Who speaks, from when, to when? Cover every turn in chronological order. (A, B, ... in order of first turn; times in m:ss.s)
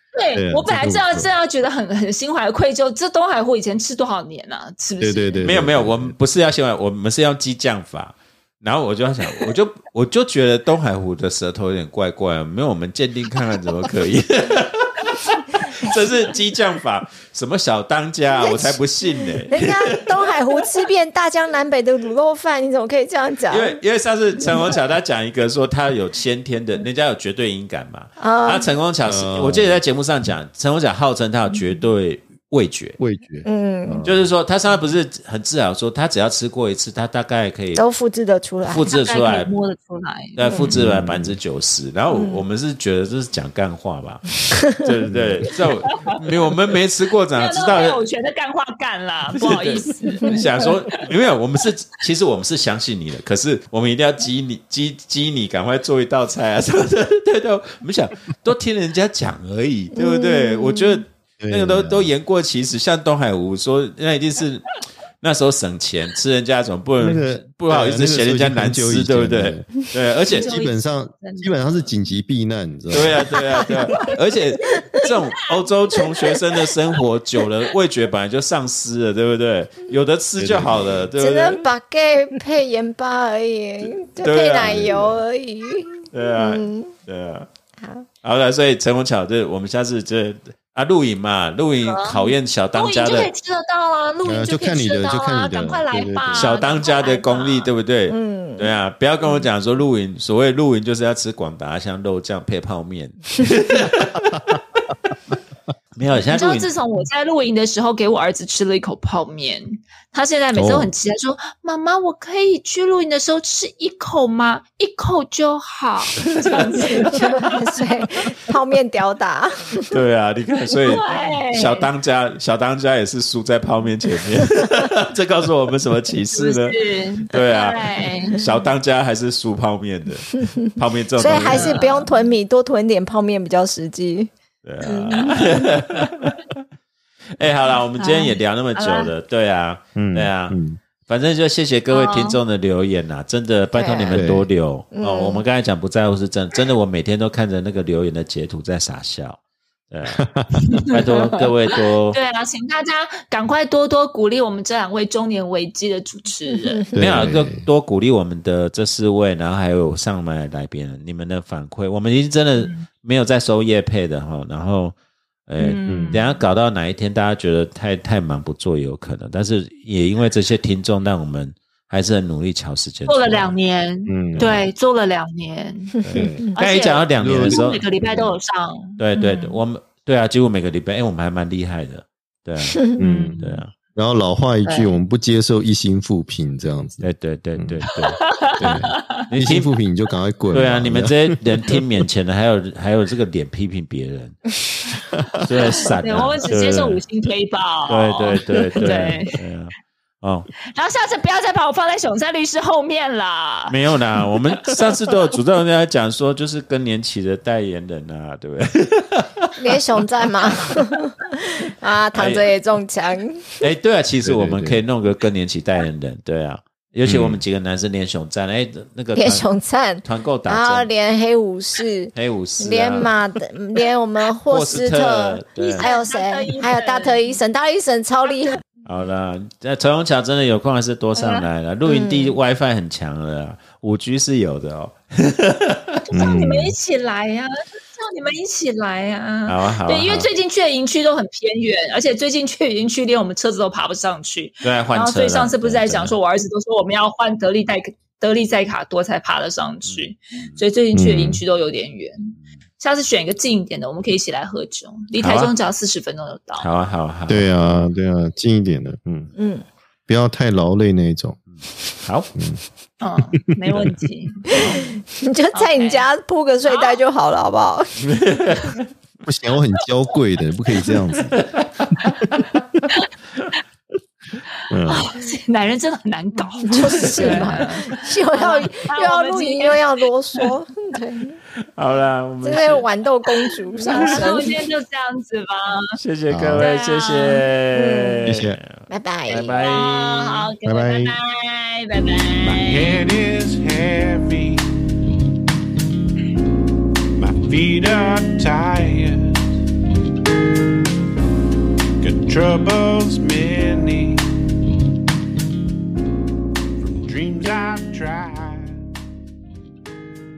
0:00.2-0:05.5 A
0:00.4-0:01.3 B
0:05.0-0:06.2 B
0:05.4-0:20.4 C
0:18.4-0:18.8 D
0:19.5-0:23.8 D
0:23.5-0:33.0 C
0:28.2-0:28.7 D
0:29.0-0:29.8 B
0:33.0-0:34.2 B
0:33.4-0:34.1 D
0:34.0-0:37.8 C
0:37.8-0:38.9 D
0:38.6-0:39.5 C
0:38.9-0:40.6 A
0:40.4-0:48.0 C
0:40.5-0:40.7 D
0:40.7-0:41.4 B
0:42.1-0:42.4 D
0:45.1-0:45.5 B
0:47.4-0:50.7 A
0:49.4-1:10.5 C
0:59.9-1:01.0 D
1:01.4-1:02.1 B
1:07.0-1:09.7 B
1:10.3-1:11.9 A
1:10.4-1:13.3 B
1:12.9-1:21.7 C
1:13.7-1:15.1 A
1:16.0-1:16.7 A
1:20.4-1:21.1 B
1:21.2-1:26.9 D
1:24.2-1:25.2 C
1:24.6-1:25.2 B
1:26.1-1:27.5 C
1:27.8-1:28.1 D
1:28.2-1:33.3 C
1:31.8-1:37.7 A
1:34.2-1:36.5 B
1:36.3-1:44.6 C
1:38.1-1:38.7 D
1:46.0-1:46.7 C
1:46.3-1:57.5 A
1:50.6-1:50.9 B
1:56.2-1:56.7 C
1:56.8-2:00.0 D
1:59.9-2:12.0 C
2:00.8-2:01.9 A
2:06.3-2:08.5 A
2:11.2-2:14.3 D
2:11.5-2:12.1 A
2:14.6-2:16.6 C
2:14.9-2:15.9 A
2:17.4-2:29.4 C
2:18.0-2:19.1 A
2:20.0-2:20.8 B
2:21.9-2:22.4 A
2:23.8-2:24.2 D
2:24.1-2:24.5 B
2:24.9-2:25.4 D
2:29.9-2:30.2 C
2:30.1-2:30.5 B
2:30.7-2:31.4 A
2:30.9-2:32.2 C
2:32.1-2:36.8 A
2:36.5-2:37.2 D
2:36.9-2:37.7 B
2:37.0-2:45.0 C
2:42.6-2:42.8 A
2:45.5-2:53.5 C
2:45.6-2:46.4 A
2:45.9-2:46.2 B
2:53.1-2:56.0 A
2:54.1-2:54.6 B
2:54.4-2:54.6 C
2:56.1-2:56.5 D
2:56.1-2:56.5 B
2:56.6-2:59.5 A
2:56.6-2:58.3 C
2:57.2-2:57.6 B
2:59.0-3:03.7 C
3:03.0-3:03.5 A
3:03.0-3:07.8 B
3:04.6-3:04.9 A
3:07.0-3:09.7 C
3:08.2-3:09.2 A
3:08.6-3:11.8 B
3:10.5-3:14.4 C
3:15.1-3:15.4 B
3:15.4-3:17.0 C
3:15.8-3:19.4 A
3:17.9-3:20.5 C
3:20.6-3:23.8 A
3:23.7-3:29.8 C
3:24.5-3:25.0 A
3:29.6-3:33.6 D
3:30.4-3:30.9 C
3:32.1-3:32.5 C
3:33.6-3:39.5 C
3:34.2-3:34.8 B
3:37.0-3:37.4 B
3:39.2-3:48.6 D
3:40.0-3:40.9 C
3:42.1-3:43.1 C
3:44.5-3:45.9 C
3:45.6-3:47.3 A
3:48.3-3:48.6 A
3:48.8-3:56.0 C
3:51.2-3:51.5 A
3:51.9-3:52.4 D
3:56.1-4:16.7 A
3:56.1-3:56.8 B
3:59.5-4:00.3 C
4:04.6-4:06.1 C
4:09.9-4:10.6 C
4:10.9-4:11.4 B
4:15.2-4:15.5 C
4:16.6-4:17.9 C
4:17.3-4:19.3 B
4:19.4-4:19.6 D
4:20.1-4:21.4 B
4:21.5-4:22.3 C
4:22.4-4:22.6 B
4:23.0-4:24.9 A
4:23.3-4:23.9 B
4:24.5-4:24.9 C
4:24.5-4:28.0 D
4:25.5-4:26.1 A
4:26.7-4:27.0 A
4:28.0-4:28.9 C
4:29.2-4:31.4 B
4:31.3-4:32.6 C
4:32.1-4:32.4 B
4:34.7-4:35.1 B
4:34.9-4:40.5 A
4:36.7-4:41.4 D
4:36.7-4:38.0 C
4:41.8-4:42.9 C
4:42.4-4:44.6 D
4:43.8-4:46.0 A
4:43.9-4:44.2 C
4:46.0-4:50.5 C
4:46.3-4:46.7 B
4:46.6-4:47.4 A
4:47.7-4:48.3 D
4:48.2-4:48.6 B
4:48.9-4:49.6 D
4:49.5-4:53.0 A
4:50.6-4:51.2 B
4:52.5-4:54.6 E
4:57.2-4:59.4 E
5:02.0-5:04.8 E
5:06.8-5:08.8 E